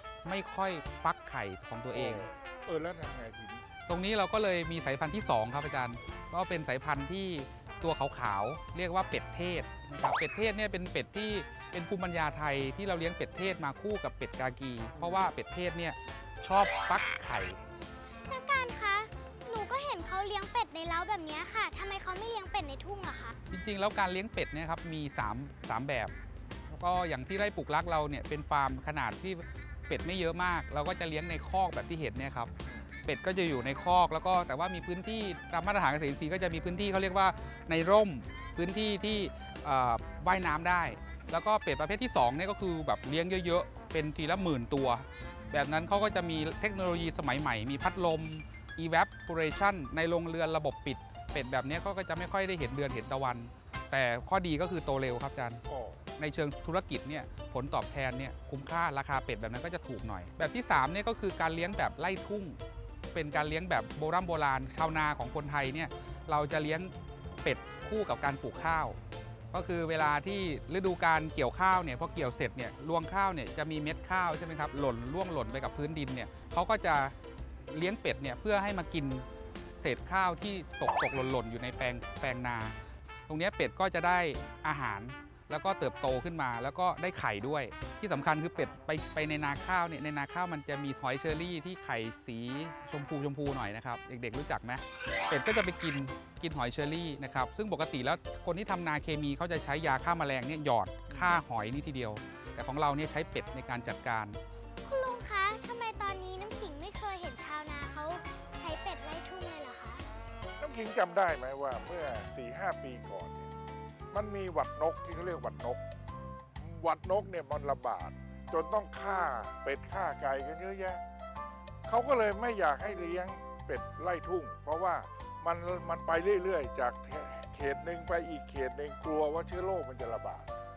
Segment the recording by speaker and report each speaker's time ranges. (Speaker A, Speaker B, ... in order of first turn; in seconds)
Speaker A: 0.2-2.3, 3.9-17.6, 23.5-26.1, 26.7-32.5, 33.0-55.6, 56.2-62.6, 63.1-69.0, 69.5-77.1, 77.7-79.2, 79.8-82.8, 83.3-104.4
Speaker B: 1.9-3.6, 55.7-56.0, 110.6-113.5, 114.1-115.8, 116.6-121.0, 121.8-130.5
Speaker C: 18.2-23.3, 104.8-110.0